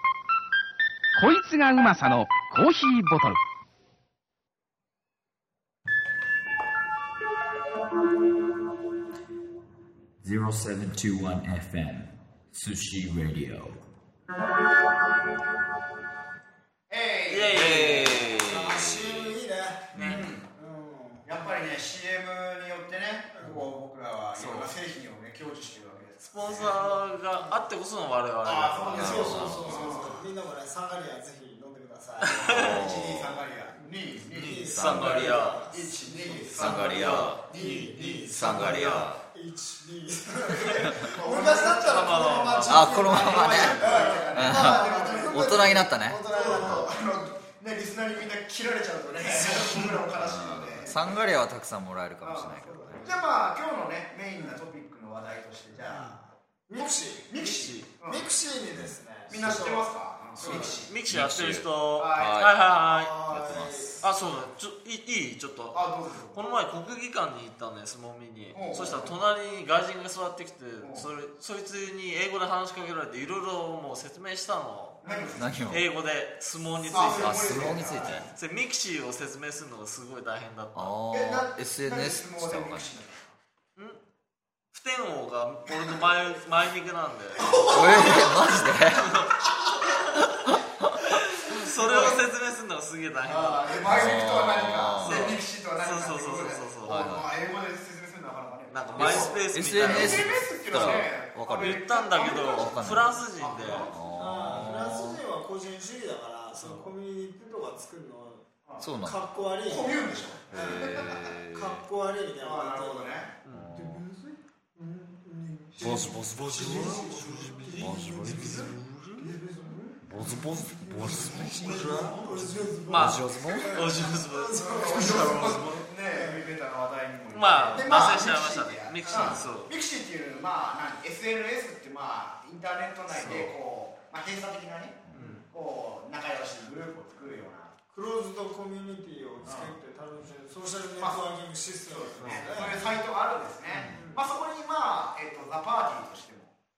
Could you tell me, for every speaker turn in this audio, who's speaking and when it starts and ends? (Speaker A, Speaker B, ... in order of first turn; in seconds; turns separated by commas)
Speaker A: 1.1-3.4, Speaker B: 10.2-13.8, Speaker C: 16.9-18.1, Speaker D: 17.3-18.5, Speaker B: 17.5-19.2, Speaker E: 18.4-19.9, Speaker D: 19.9-20.3, Speaker B: 19.9-20.2, Speaker C: 19.9-20.5, Speaker E: 20.5-21.3, Speaker C: 21.2-26.9, Speaker D: 24.4-24.7, Speaker D: 26.3-29.6, Speaker E: 27.3-27.6, Speaker C: 28.4-30.2, Speaker E: 28.9-32.5, Speaker B: 28.9-30.1, Speaker D: 32.3-32.8, Speaker C: 32.3-39.1, Speaker B: 32.5-33.4, Speaker E: 33.8-36.4, Speaker D: 34.3-35.7, Speaker B: 34.7-35.5, Speaker D: 36.5-39.0, Speaker B: 36.5-37.4, Speaker E: 37.6-37.9, Speaker B: 38.3-39.2, Speaker E: 39.1-47.0, Speaker C: 40.6-51.1, Speaker D: 41.4-43.7, Speaker B: 42.6-46.9, Speaker B: 50.2-53.0, Speaker C: 52.2-56.3, Speaker E: 52.6-53.2, Speaker E: 56.7-57.3, Speaker C: 57.3-58.3, Speaker D: 57.4-57.9, Speaker E: 58.0-60.8, Speaker C: 59.3-60.9, Speaker D: 60.4-63.1, Speaker B: 61.1-62.5, Speaker C: 62.0-62.4, Speaker E: 62.8-64.0, Speaker B: 63.3-64.1, Speaker D: 64.0-75.0, Speaker C: 65.7-66.4, Speaker C: 68.5-69.1, Speaker C: 70.8-71.0, Speaker C: 75.0-75.7, Speaker B: 75.3-75.8, Speaker D: 75.7-80.9, Speaker E: 76.9-77.3, Speaker C: 76.9-78.3, Speaker B: 77.0-78.2, Speaker B: 80.7-82.9, Speaker C: 81.1-83.3, Speaker D: 84.7-88.2, Speaker C: 87.4-88.6, Speaker B: 87.7-89.2, Speaker D: 89.0-89.3, Speaker D: 91.4-94.2, Speaker C: 91.8-92.2, Speaker C: 93.2-104.2, Speaker B: 93.8-95.3, Speaker D: 95.0-97.2, Speaker B: 96.9-97.3, Speaker D: 98.7-103.9, Speaker B: 99.0-103.2, Speaker B: 103.9-105.2, Speaker E: 104.2-108.4, Speaker D: 106.5-106.9, Speaker C: 108.7-108.9, Speaker B: 108.8-109.2, Speaker E: 109.0-113.1, Speaker C: 109.6-111.3, Speaker B: 110.5-111.8, Speaker C: 112.4-113.3, Speaker D: 113.4-113.7, Speaker B: 113.5-114.0, Speaker E: 113.7-125.5, Speaker B: 115.8-119.0, Speaker C: 115.8-118.6, Speaker D: 117.4-119.2, Speaker B: 120.0-122.4, Speaker C: 121.0-122.6, Speaker D: 122.9-125.9, Speaker B: 122.9-123.8, Speaker C: 124.6-137.7, Speaker E: 126.1-126.4, Speaker D: 127.3-129.7, Speaker E: 129.1-129.3, Speaker D: 133.1-133.5, Speaker D: 135.1-135.4, Speaker E: 135.2-135.4, Speaker E: 137.9-142.8, Speaker C: 139.4-139.8, Speaker C: 141.0-141.2, Speaker C: 141.8-146.5, Speaker D: 142.2-142.7, Speaker D: 143.7-144.0, Speaker E: 143.9-144.2